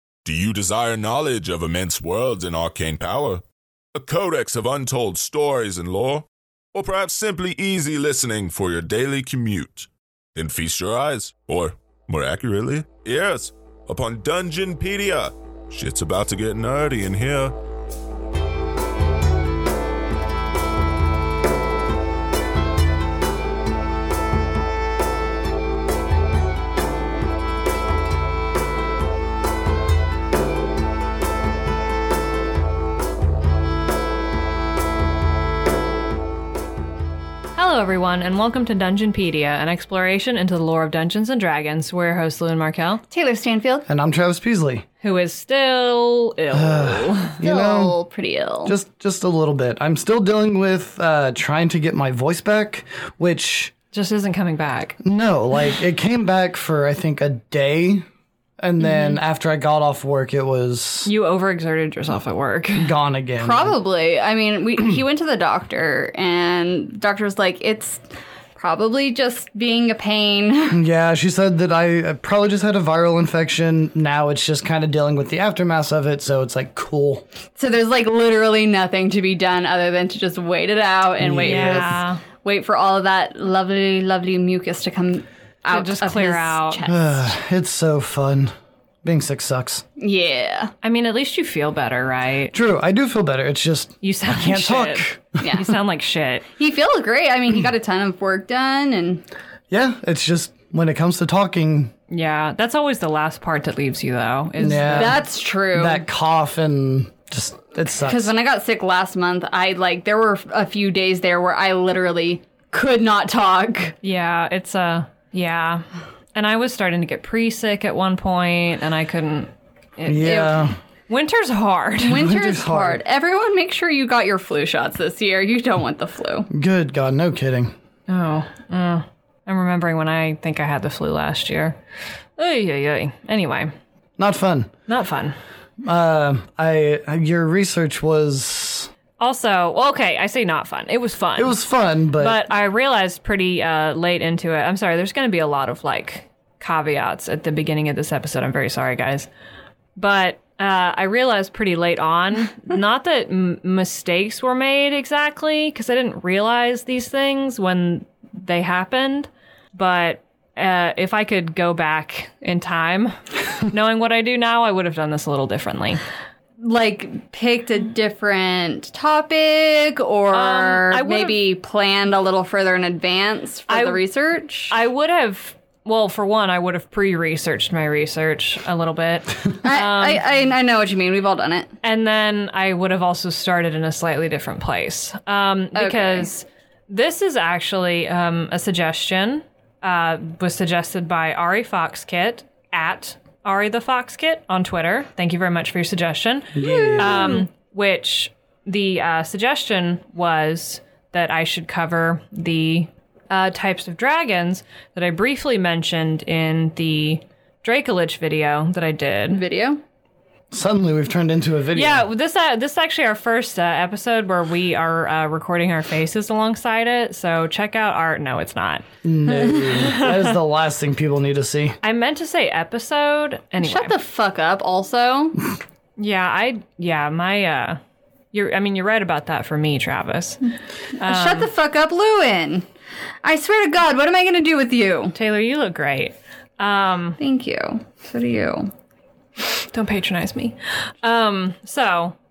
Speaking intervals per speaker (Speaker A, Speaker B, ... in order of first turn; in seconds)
Speaker A: 0.2-3.4, 3.9-17.5
Speaker B: 37.5-43.0, 45.0-47.4, 53.9-55.0, 61.0-62.9, 81.4-82.2, 85.7-86.8, 90.8-92.5, 94.0-96.4, 102.1-105.2, 114.0-115.8, 116.3-122.3, 128.1-131.8, 132.4-133.7, 134.9-135.3, 139.2-141.6, 142.2-149.3, 150.0-166.0, 170.3-171.4, 173.7-174.0, 174.7-180.2, 181.8-209.4, 211.7-218.8, 219.6-220.3, 221.8-223.9, 226.0-227.8, 228.3-231.5, 235.1-237.2, 239.7-242.1
Speaker C: 43.1-43.9, 47.4-48.7, 63.4-68.0, 68.5-70.8, 77.6-87.3, 90.0-90.7, 95.4-95.7, 96.6-99.2, 104.8-106.0, 108.0-113.9, 122.0-126.5, 166.6-174.7, 179.6-181.7, 185.7-186.3, 196.6-197.5, 209.3-209.8, 223.6-225.4, 231.0-232.7, 233.2-235.1, 237.2-238.7
Speaker D: 43.9-44.8, 46.5-47.9, 48.6-53.7, 55.0-58.0, 58.6-61.1, 62.8-63.7, 70.7-77.2, 81.2-82.0, 86.9-88.5, 89.0-89.8, 92.5-95.4, 99.7-101.9, 104.6-108.3, 120.0-120.8, 122.1-123.0, 126.5-127.7, 134.2-134.7, 135.8-138.9, 141.4-142.4, 196.5-197.3, 210.5-212.1, 219.0-221.8